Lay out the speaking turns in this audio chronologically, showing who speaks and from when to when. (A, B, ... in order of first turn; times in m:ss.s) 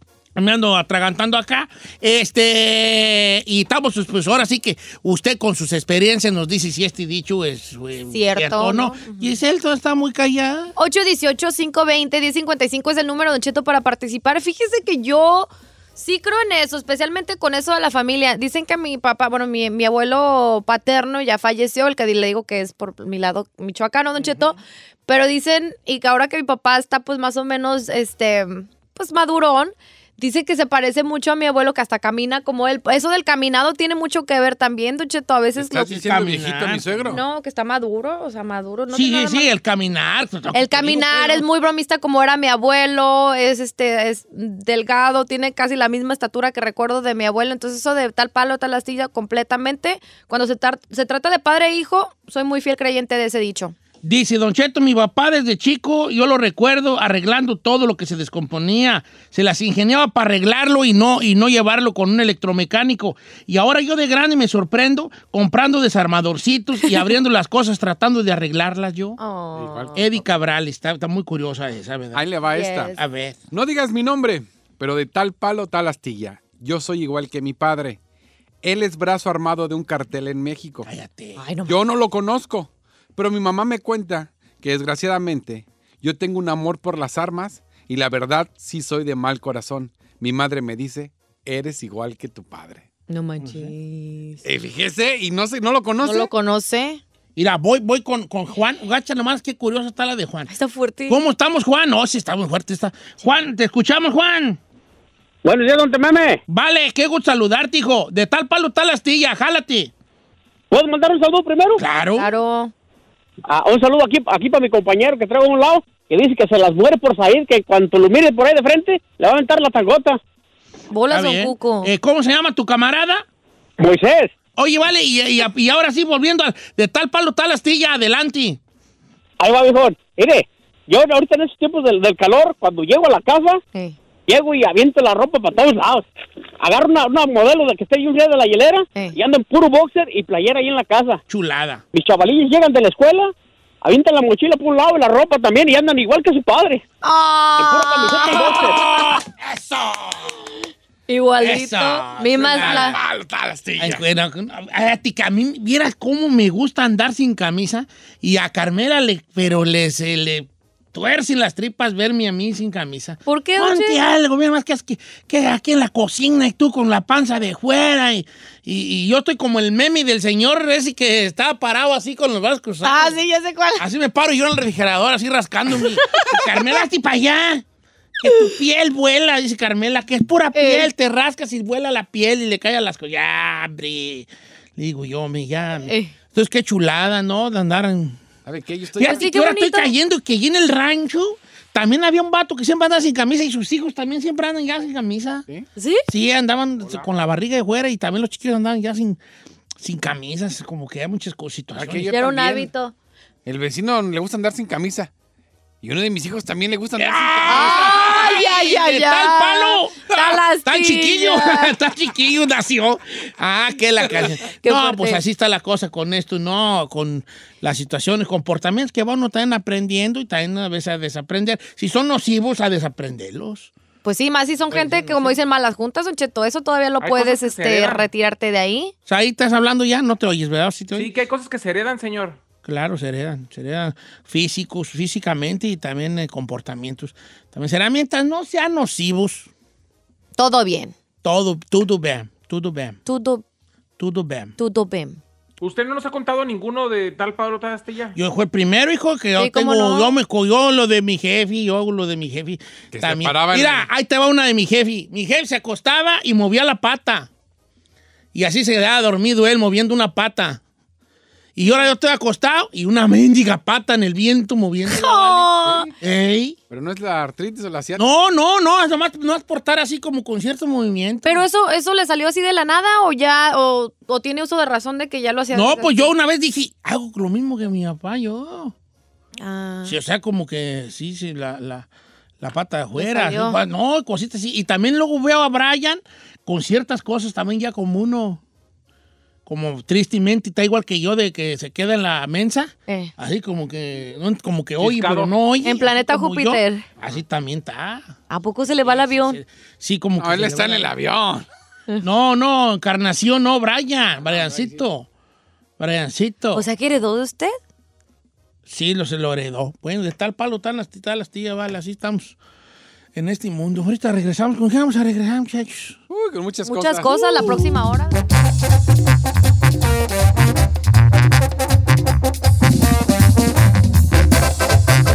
0:00.4-0:10.7 A
0:08.1-0:09.3 B
0:10.8-0:35.9 B
0:35.6-0:37.2 C
0:35.9-0:37.2 A
0:37.1-0:39.5 B
0:38.9-0:41.4 A
0:40.5-0:53.7 B
0:54.0-1:09.2 A
1:09.2-1:10.0 B
1:09.6-1:10.0 C
1:09.9-1:12.2 A
1:12.1-1:12.9 C
1:12.5-1:13.0 B
1:12.9-1:13.4 A
1:13.5-1:18.0 C
1:18.6-1:20.9 C
1:20.8-1:21.4 A
1:21.4-1:21.8 B
1:21.6-1:32.9 C
1:33.1-1:34.4 B
1:33.4-1:33.7 A
1:34.4-1:36.3 C
1:36.0-1:37.0 B
1:37.4-1:40.5 A
1:40.5-1:41.2 B
1:41.1-1:44.6 A
1:45.4-1:46.4 D
1:46.5-1:49.9 A
1:50.7-1:51.8 D
1:51.8-1:52.3 A
1:52.2-1:52.7 B
1:53.5-2:00.2 D
2:00.9-2:01.9 B
2:01.1-2:03.2 A
2:03.8-2:04.3 D
2:04.6-2:08.6 A
2:09.4-2:13.6 D
2:14.3-2:16.0 D
2:16.6-2:21.2 D
2:21.3-2:21.8 A
2:21.9-2:26.8 D
2:27.0-2:28.8 B
2:27.6-2:28.8 D
2:28.3-2:29.5 A
2:29.7-2:30.1 C
2:31.1-2:33.0 B
2:31.4-2:33.0 A
2:32.4-2:34.0 C
2:33.8-2:53.2 A
2:43.2-2:44.0 B
2:52.8-2:53.8 B
2:53.8-2:57.6 A
2:55.8-2:56.8 B
2:58.2-3:08.2 A
2:58.2-2:58.5 B
3:00.5-3:00.9 B
3:05.8-3:06.1 B
3:08.4-3:09.3 C
3:08.9-3:15.4 A
3:09.0-3:09.9 B
3:15.8-3:16.0 B
3:16.1-3:19.2 A
3:19.8-3:22.1 A
3:21.7-3:22.7 C
3:22.1-3:22.9 B
3:23.4-3:25.1 C
3:25.8-3:28.4 C
3:27.0-3:43.7 A
3:27.4-3:31.7 B
3:34.4-3:35.2 B
3:44.0-3:48.9 B
3:44.7-3:45.3 C
3:47.0-3:48.1 E
3:49.1-3:51.1 A
3:50.9-3:52.4 E
3:52.6-3:59.5 A
4:00.4-4:00.9 B
4:01.2-4:03.0 A
4:03.0-4:03.4 B
4:04.0-4:04.5 A
4:04.6-4:05.2 B
4:05.6-4:08.1 E
4:08.1-4:17.3 A
4:09.4-4:10.2 B
4:12.9-4:13.9 C
4:18.3-4:20.6 A
4:21.6-4:25.4 A
4:24.9-4:25.9 B
4:25.2-4:25.9 C
4:26.0-4:26.6 A
4:26.7-4:28.0 C
4:28.0-4:31.4 A
4:31.2-4:36.1 B
4:35.5-4:38.7 A
4:39.4-4:40.0 B
4:39.8-4:41.9 A
4:42.4-4:48.4 A
4:43.0-4:43.6 B
4:49.4-4:58.1 A
4:52.9-4:53.1 B
4:54.8-4:55.3 E
4:55.6-4:56.8 B
4:58.3-4:59.4 B
4:58.8-5:00.9 A
5:00.2-5:01.4 C
5:02.0-5:05.1 A
5:04.2-5:04.8 C
5:05.8-5:06.6 A
5:06.5-5:07.5 B
5:08.6-5:12.4 A
5:13.1-5:16.0 A
5:16.1-5:17.6 C
5:16.6-5:18.2 B